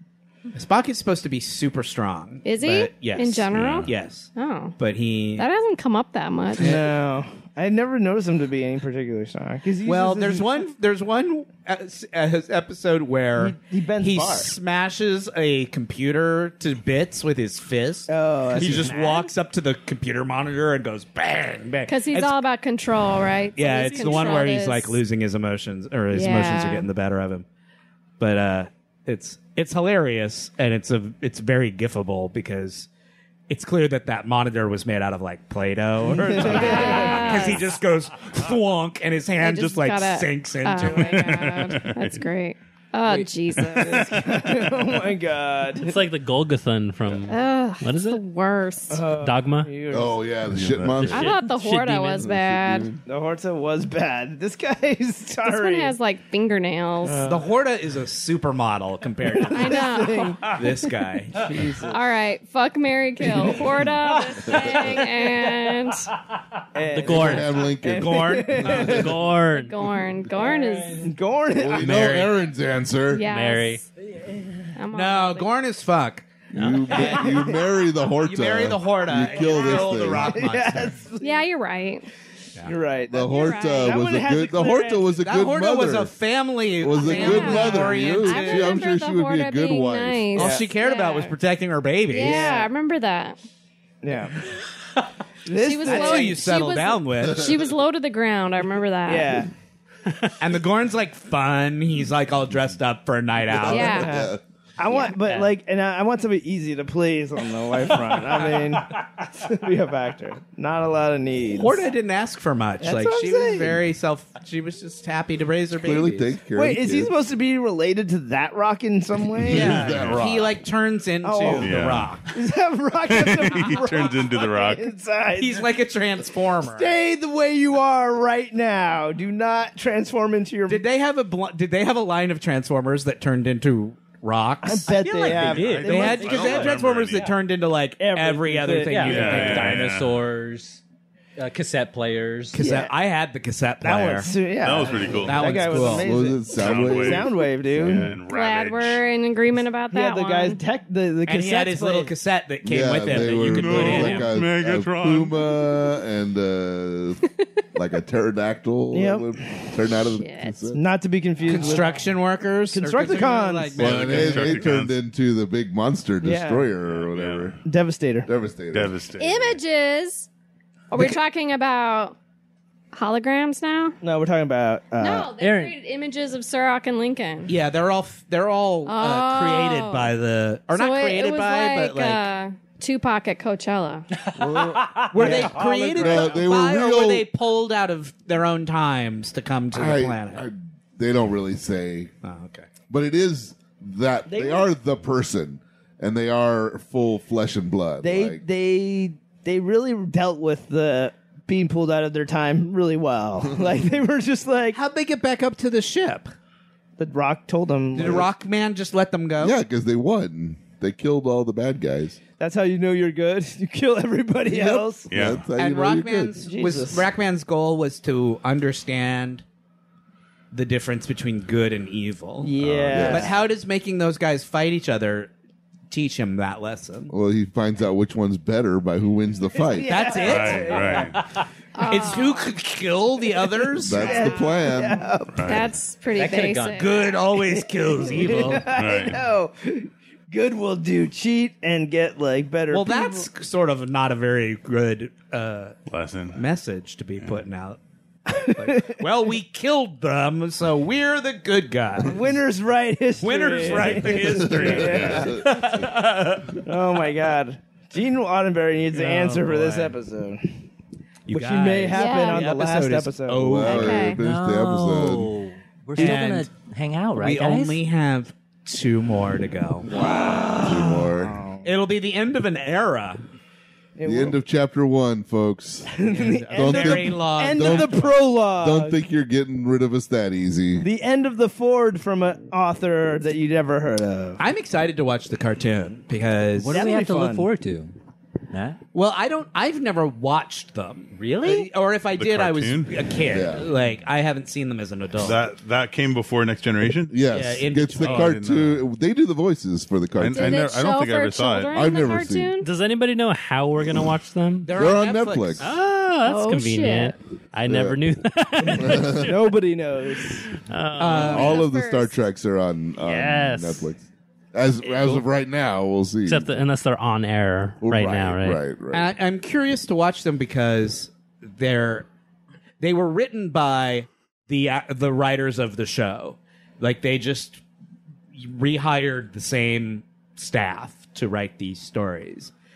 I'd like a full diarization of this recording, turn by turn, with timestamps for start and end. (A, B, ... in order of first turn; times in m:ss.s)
0:00.5-0:05.4 A
0:02.4-0:04.8 B
0:03.5-0:03.9 C
0:05.4-0:06.7 B
0:06.6-0:10.5 D
0:06.6-0:06.9 A
0:09.8-0:22.4 A
0:13.4-0:14.5 D
0:18.1-0:19.0 D
0:21.9-0:25.0 B
0:23.5-0:27.4 A
0:26.1-0:26.9 B
0:28.2-0:32.9 A
0:33.5-0:41.5 A
0:36.0-0:37.6 D
0:36.4-0:37.7 B
0:39.4-0:44.1 B
0:40.8-0:42.2 C
0:43.6-0:44.4 C
0:43.8-0:46.0 D
0:45.8-0:48.2 E
0:47.3-0:49.0 B
0:48.9-0:50.3 D
0:49.2-0:49.7 E
0:49.9-0:51.4 F
0:50.5-0:51.3 C
0:51.1-0:52.9 B
0:51.3-0:52.2 E
0:52.1-0:53.0 F
0:53.1-0:55.9 D
0:55.4-0:57.2 B
0:57.0-0:57.5 D
0:57.2-0:59.9 A
0:59.3-1:00.7 D
0:59.5-1:00.4 B
1:00.4-1:01.6 A
1:01.4-1:02.0 D
1:01.9-1:06.1 B
1:03.3-1:03.7 D
1:06.7-1:09.2 D
1:06.9-1:07.6 E
1:07.0-1:09.1 F
1:07.9-1:09.0 A
1:08.7-1:09.7 E
1:09.5-1:11.1 B
1:11.0-1:12.0 D
1:11.5-1:13.2 F
1:11.8-1:12.3 A
1:11.8-1:12.3 E
1:13.1-1:13.8 B
1:13.2-1:13.8 E
1:14.1-1:14.7 G
1:14.8-1:15.5 B
1:14.9-1:16.2 A
1:16.5-1:20.4 F
1:16.5-1:17.2 E
1:16.9-1:17.6 D
1:16.9-1:17.2 A
1:18.2-1:21.0 A
1:20.3-1:21.4 D
1:21.2-1:22.1 B
1:22.6-1:25.2 D
1:23.1-1:26.1 F
1:23.2-1:24.0 B
1:25.2-1:28.8 A
1:26.8-1:30.4 F
1:27.0-1:31.3 B
1:27.1-1:27.6 D
1:30.3-1:32.5 A
1:30.4-1:30.7 D
1:32.1-1:33.4 B
1:32.2-1:32.7 D
1:34.0-1:34.4 D
1:35.4-1:36.4 D
1:35.6-1:39.3 B
1:35.8-1:37.5 A
1:39.0-1:39.5 D
1:40.4-1:44.2 A
1:43.6-1:51.8 D
1:43.6-1:44.1 B
1:44.0-1:44.4 F
1:45.1-1:45.5 A
1:51.5-1:56.4 A
1:52.8-1:53.8 D
1:55.8-1:57.1 F
1:56.5-2:00.0 D
1:59.3-2:00.6 F
1:59.4-2:02.3 A
1:59.8-2:00.2 C
2:01.2-2:01.8 D
2:01.6-2:02.2 C
2:02.3-2:05.7 D
2:03.0-2:04.9 C
2:05.4-2:07.0 A
2:06.6-2:10.8 D
2:10.7-2:19.9 A
2:14.6-2:16.5 D
2:14.9-2:16.8 G
2:15.4-2:17.3 C
2:18.0-2:19.6 D
2:18.8-2:20.8 G
2:19.0-2:20.2 C
2:21.4-2:22.6 G
2:22.5-2:24.3 A
2:22.6-2:22.9 D
2:23.8-2:28.1 D
2:24.6-2:25.7 C
2:25.2-2:26.1 A
2:25.8-2:28.2 F
2:26.6-2:29.0 C
2:28.3-2:30.6 B
2:29.9-2:32.1 D
2:31.2-2:34.3 A
2:32.6-2:40.8 F
2:33.3-2:35.6 C
2:38.9-2:39.4 D
2:40.1-2:40.6 B
2:40.7-2:42.0 D
2:41.4-2:44.6 A
2:42.7-2:44.5 D
2:43.8-2:47.6 F
2:43.8-2:45.0 C
2:46.2-2:46.7 D
2:46.9-2:47.5 C
2:47.6-2:48.3 D
2:48.2-2:48.9 F
2:48.7-2:49.6 C
2:49.2-2:50.3 B
2:50.9-2:52.2 B
2:52.9-2:54.0 B
2:54.0-2:55.3 D
2:55.0-2:57.5 B
2:55.4-2:55.7 G
2:57.5-3:02.3 A
2:58.8-3:00.1 B
3:00.7-3:04.1 B
3:04.2-3:06.1 G
3:04.4-3:07.3 F
3:05.1-3:10.4 A
3:05.2-3:05.7 D
3:09.7-3:12.1 F
3:12.2-3:12.7 A
3:12.9-3:18.4 F
3:14.3-3:14.7 D
3:18.0-3:24.8 D
3:24.7-3:26.3 A
3:27.0-3:28.3 D
3:27.9-3:29.6 A
3:29.4-3:32.2 F
3:32.4-3:35.3 D
3:34.4-3:36.4 F
3:35.1-3:35.5 C
3:35.5-3:39.4 A
3:36.4-3:37.1 D
3:40.5-3:45.3 A
3:42.4-3:43.4 D
3:42.6-3:43.3 F
3:45.9-3:47.1 A
3:47.1-3:50.1 F
3:49.5-3:51.2 D
3:49.8-3:51.0 A
3:50.2-3:51.2 C
3:50.9-3:51.4 G
3:51.7-3:52.5 B
3:51.8-3:54.3 A
3:53.8-3:55.0 F
3:53.8-3:55.6 D
3:54.0-3:56.9 B
3:55.3-3:55.7 C
3:56.1-3:57.1 G
3:56.7-3:58.8 A
3:57.5-4:03.3 D
3:58.6-3:59.2 C
4:02.7-4:05.8 A
4:05.9-4:06.4 C
4:06.3-4:07.8 A
4:08.3-4:09.0 D
4:08.5-4:12.2 A
4:12.0-4:15.9 D
4:13.2-4:16.6 A
4:14.4-4:15.6 F
4:14.8-4:15.3 C
4:16.6-4:20.6 D
4:18.9-4:20.0 A
4:21.3-4:24.1 A
4:21.3-4:23.6 D
4:21.9-4:22.4 B
4:23.3-4:25.3 F
4:23.6-4:24.2 B
4:24.1-4:27.8 G
4:26.0-4:26.5 A
4:27.2-4:29.9 A
4:29.9-4:31.7 D
4:30.6-4:31.4 F
4:31.6-4:33.2 A
4:34.0-4:34.4 D
4:34.0-4:36.0 F
4:35.9-4:39.0 D
4:36.0-4:38.2 A
4:36.5-4:40.9 F
4:40.8-4:44.4 D
4:44.4-4:46.8 A
4:46.6-4:47.9 G
4:46.7-4:47.5 D
4:48.5-4:48.8 G
4:48.9-4:55.4 A
4:51.1-4:51.7 G
4:52.2-4:52.9 C
4:53.3-4:53.7 F
4:55.2-4:57.2 C
4:57.1-5:00.6 F
4:57.3-4:58.4 A
4:58.0-4:58.9 C
5:00.2-5:01.7 C
5:00.3-5:02.7 B
5:01.7-5:02.5 F
5:02.6-5:04.7 E
5:04.6-5:05.7 A
5:04.7-5:05.6 F
5:05.6-5:09.4 E
5:06.2-5:07.1 B
5:07.7-5:08.1 F
5:08.7-5:09.3 F
5:09.2-5:10.5 D
5:10.6-5:11.6 E
5:11.0-5:11.6 A
5:11.1-5:12.1 B
5:11.2-5:14.0 F
5:13.0-5:13.9 E
5:14.5-5:16.6 F
5:16.2-5:18.6 E
5:17.8-5:19.1 F
5:18.9-5:22.1 A
5:22.8-5:27.6 A
5:28.3-5:32.5 A